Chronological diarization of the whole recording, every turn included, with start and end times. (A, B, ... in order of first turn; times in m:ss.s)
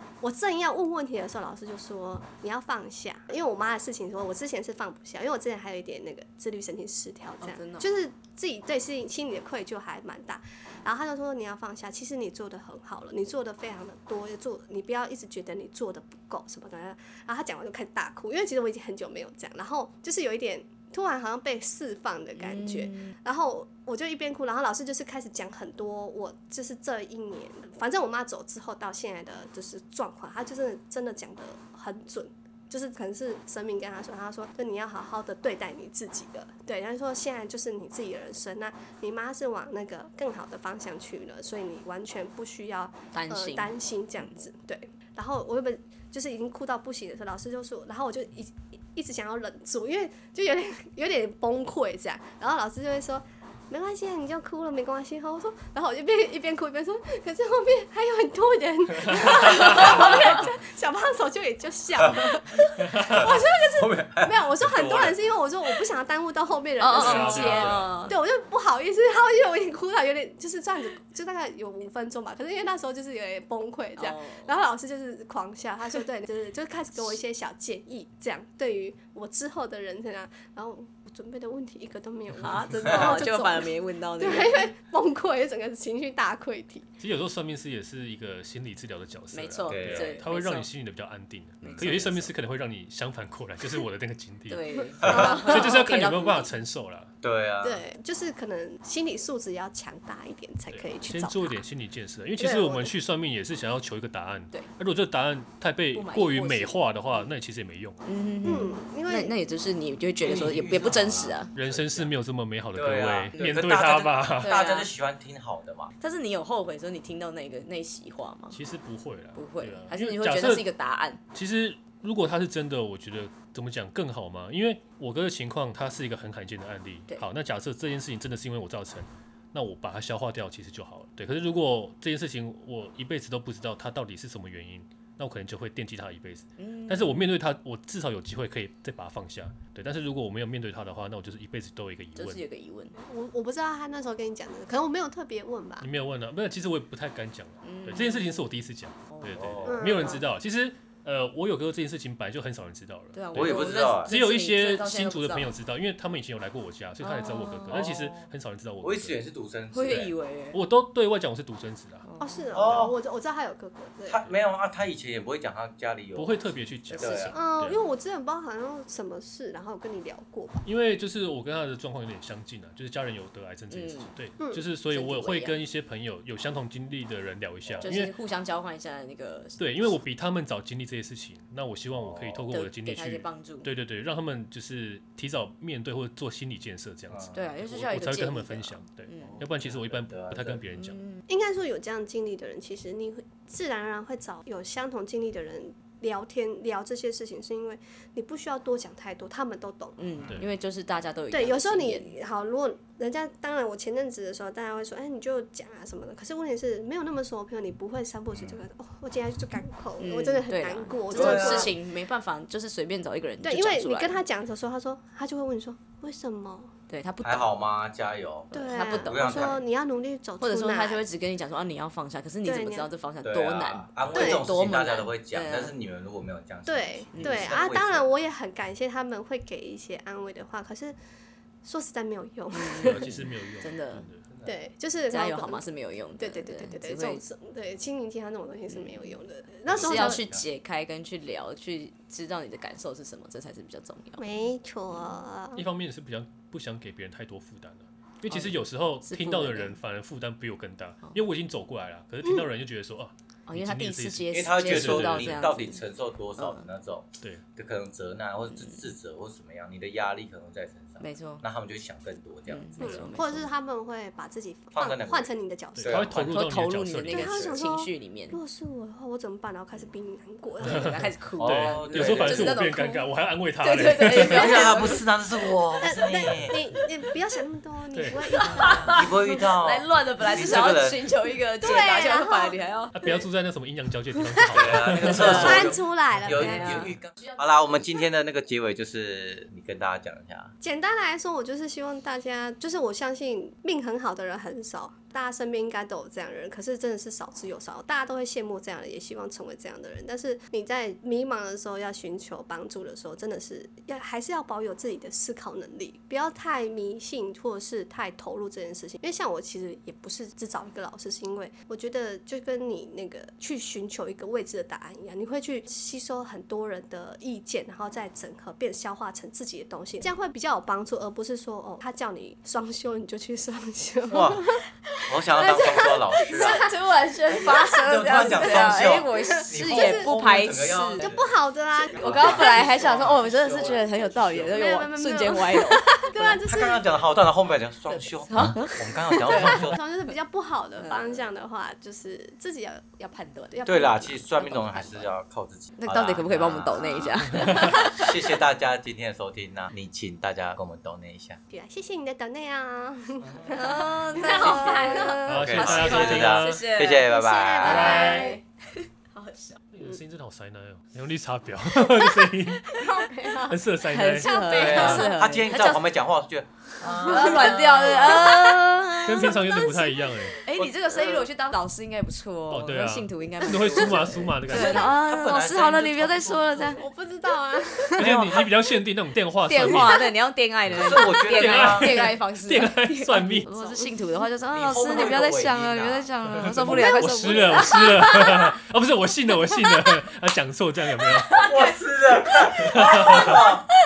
0:00.2-1:26.9 A
0:07.4-0:07.9 B
0:22.4-0:23.1 B
0:43.1-0:43.7 B
0:59.2-1:00.3 C
1:02.0-1:02.4 D
1:02.9-1:03.2 C
1:02.9-1:05.3 D
1:06.8-1:08.1 B
1:06.9-1:07.9 C
1:14.0-1:14.5 B
1:22.4-1:24.6 B
1:22.9-1:23.2 D
1:27.0-1:37.1 C
1:29.3-1:30.7 B
1:29.7-1:30.2 D
1:31.6-1:32.3 B
1:34.5-1:36.5 B
1:35.0-1:35.3 D
1:35.0-1:35.7 A
1:37.2-1:37.8 D
1:37.6-1:41.6 A
1:40.7-1:48.0 C
1:42.4-1:43.0 A
1:45.9-1:46.8 B
1:48.0-1:51.5 B
1:48.4-1:49.3 A
1:50.2-1:52.1 D
1:51.5-1:54.6 C
1:52.7-1:55.9 D
1:53.4-1:53.6 B
1:54.4-1:54.9 B
1:56.0-1:58.6 B
1:58.5-2:00.7 C
1:59.4-2:01.2 B
2:01.3-2:22.4 C
2:16.6-2:17.3 B
2:22.2-2:23.0 B
2:23.0-2:25.9 A
2:25.8-2:39.2 C
2:27.6-2:28.4 B
2:29.1-2:29.4 B
2:29.4-2:30.0 D
2:29.7-2:30.2 A
2:33.1-2:35.5 B
2:33.3-2:34.1 D
2:37.0-2:38.2 B
2:37.7-2:38.0 D
2:38.8-2:40.1 D
2:39.7-2:40.6 B
2:39.9-2:42.0 C
2:42.0-2:42.6 B
2:42.2-2:44.2 A
2:42.5-2:43.0 D
2:44.1-2:46.4 D
2:46.2-2:47.8 C
2:46.9-2:47.4 B
2:47.0-2:47.4 D
2:47.3-2:50.6 A
2:50.6-2:58.1 C
2:53.7-2:54.1 B
2:54.9-2:55.6 B
2:57.8-2:59.9 B
2:59.6-3:11.0 C
3:02.0-3:02.4 D
3:02.5-3:03.7 B
3:07.3-3:09.3 B
3:09.2-3:10.6 D
3:10.8-3:11.2 B
3:11.3-3:20.0 A
3:20.0-3:22.1 B
3:21.3-3:31.8 A
3:28.3-3:28.6 D
3:30.0-3:34.2 B
3:31.1-3:31.7 D
3:33.4-3:36.7 A
3:36.9-3:37.5 B
3:37.2-3:39.6 D
3:38.5-3:39.6 B
3:38.5-3:41.0 A
3:40.4-3:45.7 B
3:42.4-3:42.9 A
3:43.2-3:48.1 D
3:44.1-3:44.4 A
3:46.7-3:51.0 A
3:47.1-3:47.6 B
3:51.6-3:53.1 A
3:52.5-3:54.1 B
3:52.8-3:54.5 C
3:54.4-3:55.6 A
3:55.1-3:57.2 B
3:56.2-4:00.2 A
3:58.7-3:59.0 B
3:59.7-4:00.4 D
3:59.8-4:04.2 B
4:04.2-4:05.6 A
4:05.6-4:15.4 C
4:09.0-4:09.8 B
4:13.5-4:15.8 B
4:14.3-4:23.1 D
4:16.4-4:16.6 B
4:21.0-4:21.4 B
4:22.5-4:23.5 B
4:22.8-4:26.1 A
4:24.7-4:26.3 D
4:25.8-4:27.7 C
4:26.2-4:28.4 B
4:27.1-4:31.0 A
4:30.6-4:33.1 B
4:30.6-4:34.7 C
4:31.4-4:32.7 D
4:33.6-4:35.0 B
4:34.1-4:36.6 D
4:35.8-4:39.1 A
4:37.9-4:38.9 C
4:38.5-4:43.0 B
4:38.9-4:41.0 D
4:41.6-4:43.2 A
4:42.9-4:45.7 C
4:44.5-4:50.5 D
4:44.7-4:45.7 B
4:45.0-4:46.9 A
4:46.4-4:47.4 B
4:50.6-5:24.6 A
5:24.1-5:26.7 D
5:24.9-5:31.1 B
5:25.4-5:26.6 A
5:27.3-5:31.3 D
5:28.1-5:30.1 A
5:31.0-5:33.1 A
5:31.8-5:34.6 D
5:32.0-5:36.4 B
5:34.5-5:36.8 A
5:36.2-5:39.8 D
5:38.3-5:39.8 B
5:39.2-5:44.5 A
5:40.8-5:41.2 B
5:43.0-5:43.6 B
5:43.6-5:51.4 D
5:44.4-5:45.1 B
5:45.8-5:48.1 B
5:51.5-5:55.3 A
5:53.5-5:57.1 B
5:54.3-5:58.2 D
5:55.2-5:56.7 C
5:57.0-5:58.4 A
5:57.6-5:58.4 C
5:57.6-6:00.0 B
5:59.7-6:05.1 C
6:02.7-6:03.6 A
6:03.8-6:05.8 B
6:04.2-6:04.9 A
6:04.5-6:08.2 D
6:06.8-6:08.6 A
6:07.0-6:09.6 B
6:09.0-6:10.4 C
6:09.2-6:10.4 A
6:10.4-6:16.8 B
6:10.6-6:11.2 D
6:12.5-6:14.9 C
6:14.4-6:16.8 D
6:16.8-6:18.1 A
6:18.0-6:20.0 C
6:18.0-6:18.5 D
6:19.5-6:28.5 B
6:20.7-6:22.0 D
6:20.8-6:23.5 C
6:23.6-6:23.9 A
6:24.5-6:26.1 D
6:26.3-6:31.5 C
6:26.9-6:28.1 A
6:31.2-6:31.6 B
6:31.4-6:33.6 D
6:32.6-6:33.5 C